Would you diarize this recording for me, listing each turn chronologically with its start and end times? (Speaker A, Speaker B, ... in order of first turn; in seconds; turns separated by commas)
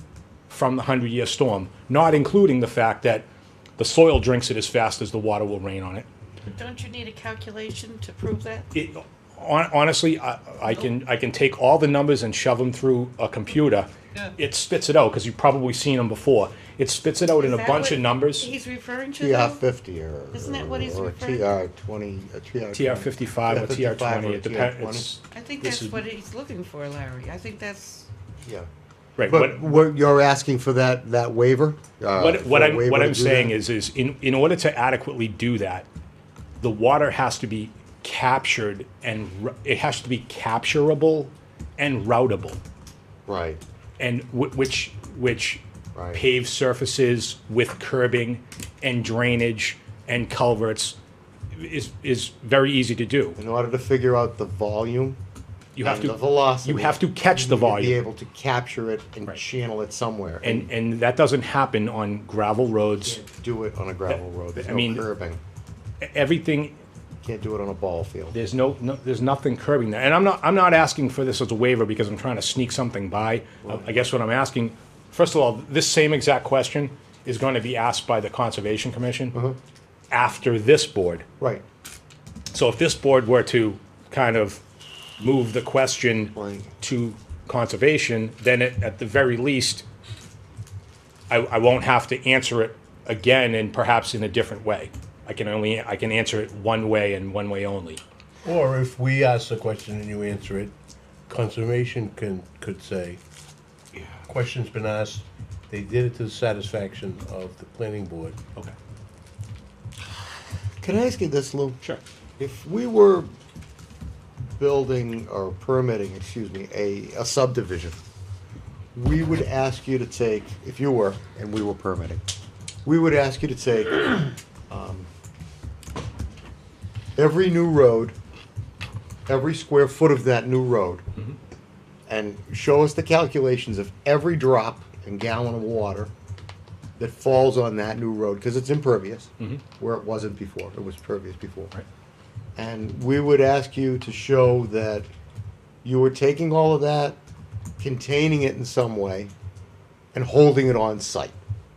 Speaker A: 0.5-3.3, Speaker A: 3.8-6.0, Speaker B: 6.5-8.7, Speaker A: 8.7-18.5, Speaker B: 17.4-19.6, Speaker C: 19.2-25.1, Speaker B: 20.3-21.5, Speaker A: 22.7-26.0, Speaker B: 25.3-28.1, Speaker C: 28.4-33.5, Speaker A: 29.2-29.9, Speaker A: 32.1-35.9, Speaker A: 36.6-42.6, Speaker C: 43.2-43.6, Speaker A: 44.0-45.6, Speaker C: 45.9-46.2, Speaker A: 46.1-51.0, Speaker A: 51.5-53.4, Speaker C: 53.4-55.2, Speaker A: 55.8-58.0, Speaker C: 55.8-60.7, Speaker A: 60.4-63.2, Speaker C: 63.0-65.4, Speaker A: 64.1-65.0, Speaker A: 66.0-66.7, Speaker C: 67.2-68.3, Speaker A: 68.3-79.3, Speaker C: 73.6-74.0, Speaker A: 80.1-81.2, Speaker A: 82.5-84.6, Speaker A: 85.2-89.8, Speaker C: 86.3-86.7, Speaker A: 91.3-98.0, Speaker D: 98.4-100.7, Speaker D: 101.3-103.2, Speaker D: 104.2-108.4, Speaker C: 110.8-111.8, Speaker C: 112.4-113.3, Speaker C: 114.4-118.0, Speaker C: 118.9-122.2, Speaker C: 122.8-125.1, Speaker C: 127.2-128.1, Speaker C: 129.3-131.0, Speaker C: 132.1-136.1, Speaker C: 137.0-141.7, Speaker C: 142.6-145.1, Speaker C: 145.8-147.2, Speaker C: 147.8-149.3, Speaker C: 150.1-151.3